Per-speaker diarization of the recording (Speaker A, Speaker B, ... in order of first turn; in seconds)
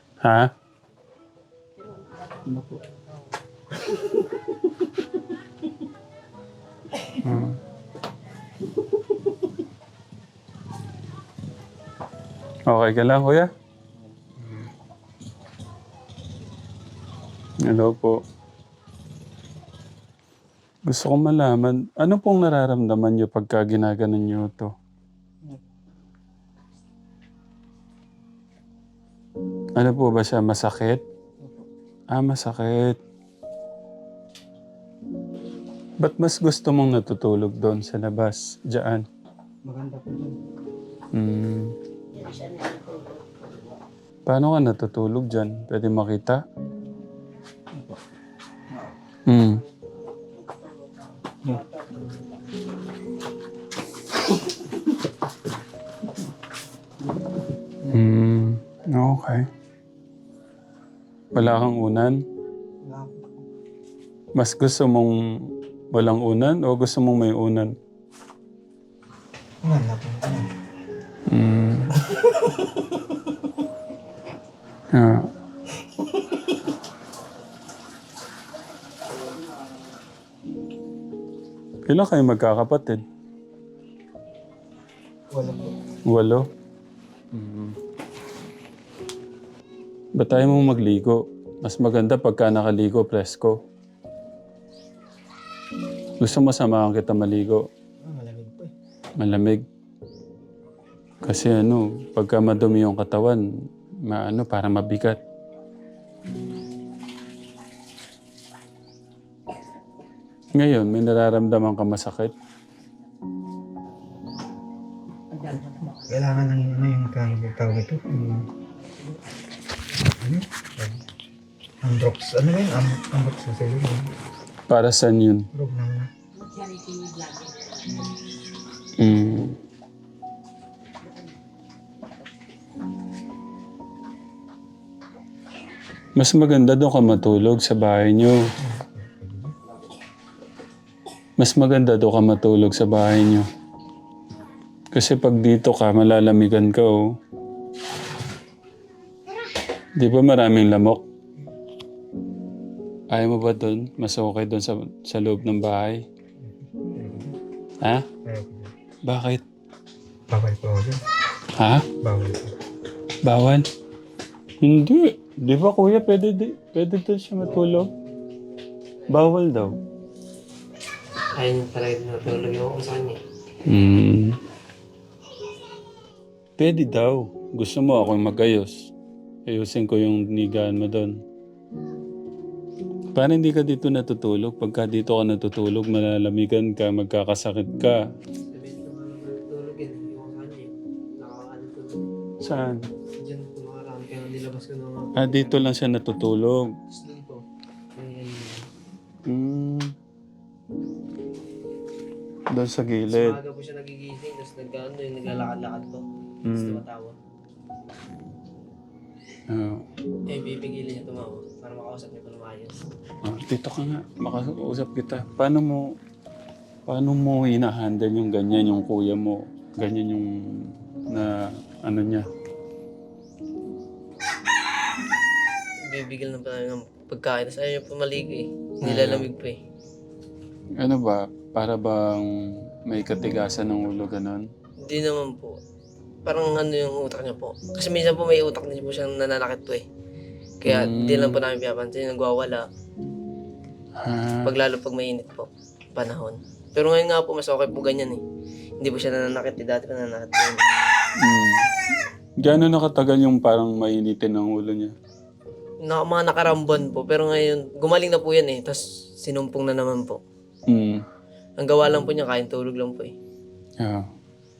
Speaker A: 0.2-0.5, 7.2-7.6, 12.7-13.5, 17.6-18.2, 20.9-24.7, 29.8-31.0, 32.1-33.0, 36.0-39.0, 41.1-41.7, 44.3-46.4, 49.3-49.6, 57.9-59.5, 61.3-62.2, 64.3-67.7, 71.3-71.9, 74.9-75.3, 81.9-83.0, 86.1-86.5, 87.3-87.8, 90.2-93.6, 96.2-97.7, 99.2-99.6, 101.2-103.4, 104.0-105.2, 110.5-112.3, 118.1-118.5, 124.7-125.5, 129.0-129.6, 136.2-138.3, 141.4-143.4, 144.9-147.0, 150.0-151.0, 153.1-156.0, 159.1-159.4, 161.6-161.8, 163.2-163.6, 164.6-167.9, 169.1-169.7, 173.7-174.4, 176.6-178.9, 179.5-181.2, 183.1-188.0, 192.4-192.9, 195.2-196.7, 199.2-199.9, 202.5-203.4, 206.4-206.8, 209.5-209.8, 213.2-215.9, 216.9-222.3, 228.8-229.3, 230.8-234.5, 240.7-241.4, 243.9-244.5, 251.2-251.7, 252.4-254.9, 260.7-261.0, 263.8-264.1
Speaker B: 2.4-2.8, 39.6-40.4, 47.7-48.0, 51.4-52.2, 62.8-63.3, 69.6-70.5, 85.3-85.7, 98.0-98.7, 115.3-118.0, 120.2-121.0, 121.8-124.1, 125.5-126.1, 138.6-139.5, 156.4-157.3, 158.2-158.7, 160.3-161.0, 162.0-162.5
Speaker C: 171.3-173.2, 188.5-192.0, 193.1-195.7, 196.9-197.4, 197.9-198.7, 203.1-207.2, 210.3-212.8, 225.8-229.6, 234.8-235.6, 236.2-239.8, 240.6-242.7, 244.4-248.2, 248.8-250.6, 255.8-260.2, 261.6-263.1